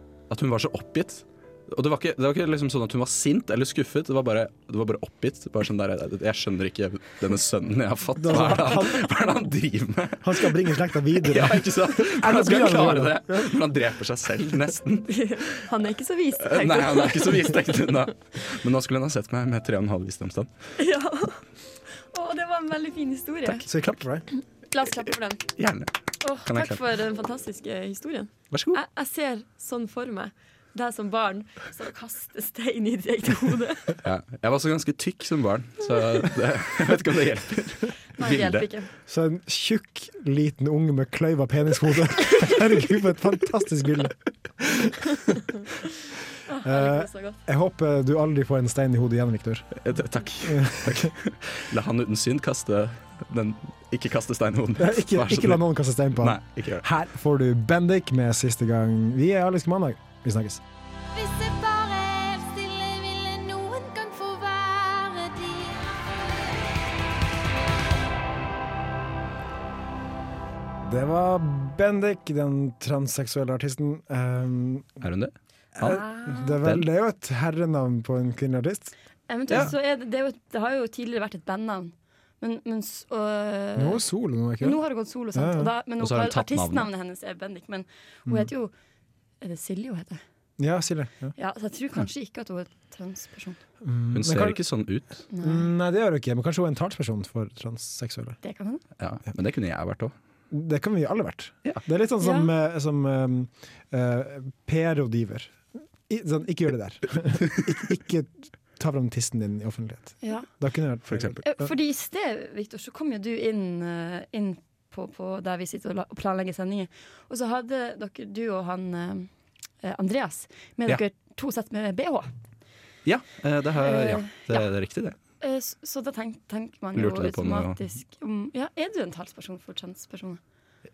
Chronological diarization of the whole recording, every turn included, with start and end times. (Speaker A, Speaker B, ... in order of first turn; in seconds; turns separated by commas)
Speaker A: 0.3-10.6, Speaker B: 8.2-9.1, Speaker B: 10.2-13.6, Speaker A: 11.2-15.1, Speaker C: 15.1-17.6, Speaker A: 16.4-20.5, Speaker C: 20.8-21.4, Speaker C: 22.1-23.7, Speaker B: 23.6-24.2, Speaker C: 24.7-25.4, Speaker A: 25.6-25.9, Speaker C: 26.2-34.0, Speaker A: 26.4-26.8, Speaker A: 28.5-28.8, Speaker A: 34.0-38.7, Speaker C: 38.2-38.9, Speaker B: 39.1-45.4, Speaker C: 46.5-47.4, Speaker B: 46.6-49.8, Speaker A: 49.8-56.9, Speaker B: 50.4-51.1, Speaker B: 54.8-60.6, Speaker D: 61.1-66.6, Speaker B: 70.8-75.0, Speaker A: 75.0-76.1, Speaker B: 75.8-78.9, Speaker C: 75.8-76.5, Speaker A: 76.6-76.8, Speaker C: 79.3-84.0, Speaker B: 83.8-84.8, Speaker C: 84.6-88.7, Speaker B: 85.3-85.7, Speaker A: 86.0-86.9, Speaker C: 89.4-90.2, Speaker B: 90.6-91.3, Speaker C: 91.3-93.6, Speaker B: 93.8-94.6, Speaker A: 94.1-95.2, Speaker C: 95.3-95.7, Speaker B: 95.4-98.4, Speaker C: 98.4-98.8, Speaker A: 99.0-100.1, Speaker B: 100.5-111.7, Speaker C: 102.2-102.5, Speaker C: 110.2-110.5, Speaker A: 111.1-111.4, Speaker C: 111.4-119.3, Speaker C: 119.8-122.3, Speaker A: 123.0-125.2, Speaker C: 123.8-124.7, Speaker C: 125.4-130.4, Speaker A: 126.9-127.8